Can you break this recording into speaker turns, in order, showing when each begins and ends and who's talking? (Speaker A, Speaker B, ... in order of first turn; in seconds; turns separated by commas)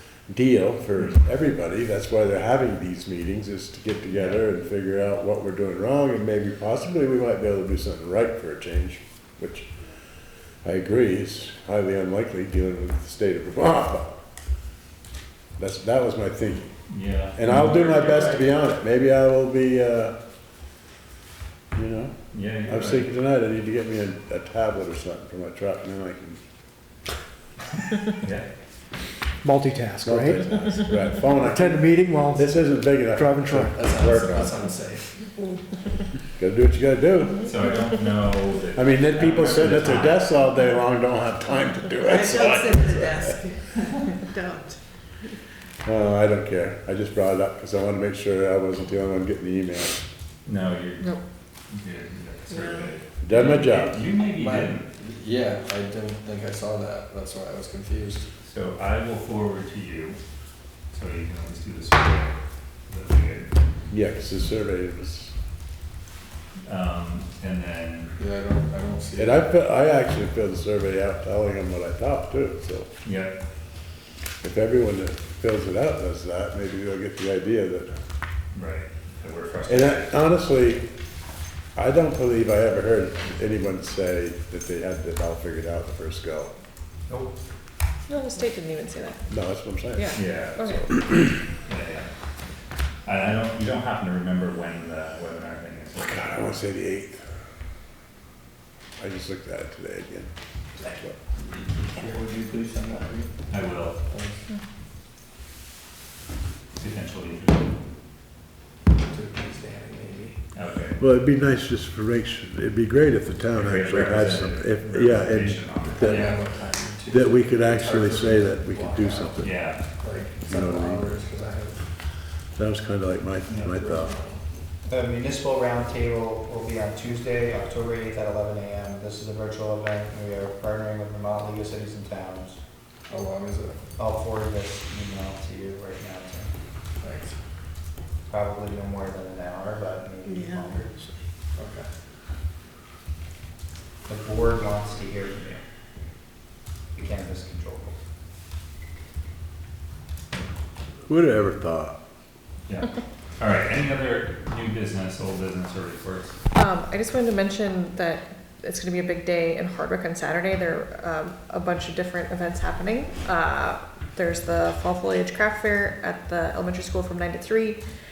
Speaker A: 0.3-9.7, Speaker A: 10.6-14.2, Speaker A: 15.6-16.7, Speaker B: 16.9-18.5, Speaker A: 17.4-20.2, Speaker A: 21.7-26.4, Speaker B: 22.3-23.1, Speaker B: 28.2-28.5, Speaker C: 29.4-33.9, Speaker A: 30.0-34.5, Speaker D: 33.7-35.2, Speaker A: 36.4-37.5, Speaker B: 37.4-40.2, Speaker A: 38.8-43.3, Speaker E: 42.0-44.8, Speaker A: 45.8-50.0, Speaker B: 50.5-51.1, Speaker B: 51.7-54.9, Speaker E: 52.5-52.9, Speaker A: 53.2-54.0, Speaker D: 54.3-58.2, Speaker B: 58.4-60.2, Speaker B: 60.9-62.4, Speaker B: 62.9-63.5, Speaker A: 63.9-65.3, Speaker B: 66.7-68.1, Speaker D: 68.2-69.5, Speaker A: 69.2-72.9, Speaker B: 73.0-73.3, Speaker A: 74.4-78.0, Speaker B: 78.5-80.1, Speaker A: 79.7-80.9, Speaker A: 81.8-86.5, Speaker F: 88.1-89.2, Speaker A: 89.3-90.2, Speaker F: 89.9-91.0, Speaker B: 90.1-90.8, Speaker B: 91.6-92.1, Speaker B: 93.0-96.4, Speaker A: 96.0-97.2, Speaker A: 99.0-101.2, Speaker D: 101.9-103.3, Speaker B: 103.5-104.0, Speaker D: 104.1-104.4, Speaker B: 106.8-107.7, Speaker D: 108.9-110.4, Speaker B: 110.5-111.0, Speaker A: 111.0-116.3, Speaker B: 113.5-116.3, Speaker D: 115.9-121.8, Speaker A: 117.1-119.5, Speaker B: 119.4-119.8, Speaker A: 120.5-121.0, Speaker A: 122.6-124.1, Speaker D: 123.5-124.4, Speaker G: 124.9-132.6, Speaker D: 133.1-133.8, Speaker G: 134.0-136.5, Speaker D: 137.0-137.3, Speaker G: 138.3-141.0, Speaker E: 140.2-141.1, Speaker D: 141.5-141.9, Speaker G: 144.1-145.6, Speaker G: 146.9-147.9, Speaker A: 151.1-152.0, Speaker B: 152.7-156.3, Speaker F: 156.5-167.8